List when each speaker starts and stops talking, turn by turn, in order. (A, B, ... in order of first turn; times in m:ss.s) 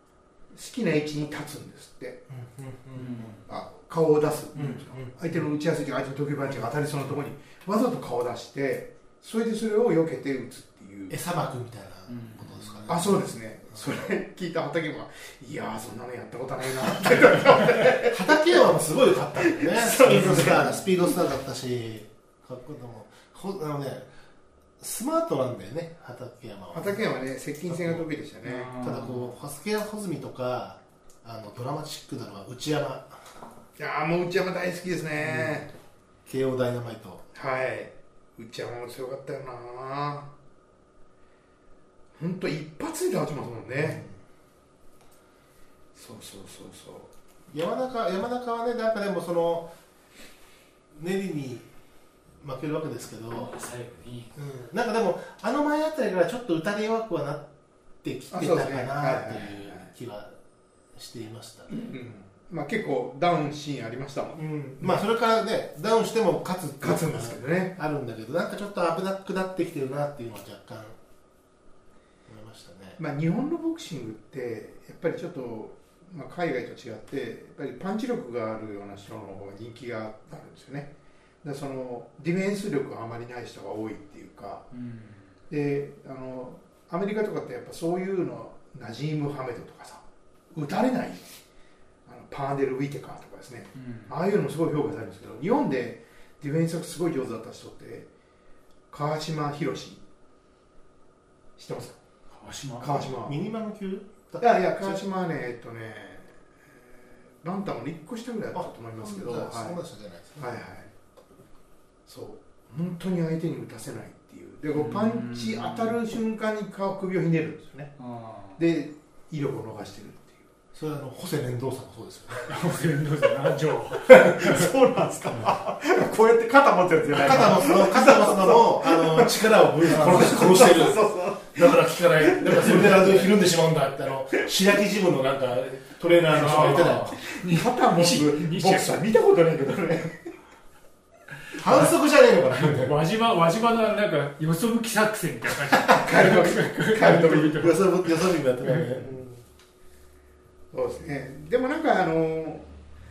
0:00.5-0:02.2 A
0:02.3-0:03.4 B
0:02.9-0:03.4 C
0:03.4-0:11.2 A
0:04.5-0:05.1 B
0:11.1-0:13.2 B
0:12.1-0:12.8 C
0:12.9-0:18.7 A
0:17.1-0:24.1 B
0:19.4-0:20.8 A
0:20.1-0:20.7 C
0:24.8-0:27.0 B
0:26.7-0:28.7 A
0:27.7-0:28.0 B
0:28.4-0:29.3 C
0:28.8-0:33.4 B
0:33.8-0:35.7 A
0:35.2-0:35.6 B
0:36.2-0:37.2 B
0:37.3-0:40.3 A
0:42.2-0:44.0 A
0:43.8-0:44.1 B
0:45.9-0:47.1 A
0:47.5-0:49.7 B
0:50.9-0:51.7 B
0:52.4-0:53.5 B
0:53.3-0:54.3 C
0:54.3-0:57.5 B
0:58.0-1:00.4 B
0:58.3-0:59.9 A
1:00.9-1:01.7 B
1:01.7-1:05.0 A
1:04.3-1:11.0 B
1:06.8-1:07.7 A
1:12.3-1:13.0 B
1:13.0-1:20.9 A
1:21.4-1:24.6 A
1:24.7-1:25.3 C
1:25.5-1:31.3 A
1:32.0-1:38.1 A
1:33.7-1:34.1 C
1:38.9-1:40.0 A
1:41.6-1:42.0 A
1:42.3-1:43.1 C
1:42.8-1:43.4 A
1:43.2-1:45.0 B
1:44.4-1:46.4 A
1:47.4-1:49.8 A
1:48.5-1:50.4 B
1:50.4-1:50.9 A
1:52.1-1:57.9 A
1:54.7-1:56.0 C
1:58.0-1:58.6 C
1:58.6-2:00.4 A
2:00.7-2:02.6 B
2:02.5-2:04.7 C
2:04.1-2:13.3 A
2:07.1-2:17.2 B
2:16.3-2:19.0 C
2:16.4-2:20.3 A
2:21.5-2:23.0 B
2:21.6-2:21.9 C
2:22.5-2:28.1 C
2:25.9-2:27.7 A
2:27.5-2:29.4 B
2:28.6-2:28.9 C
2:30.7-2:32.8 A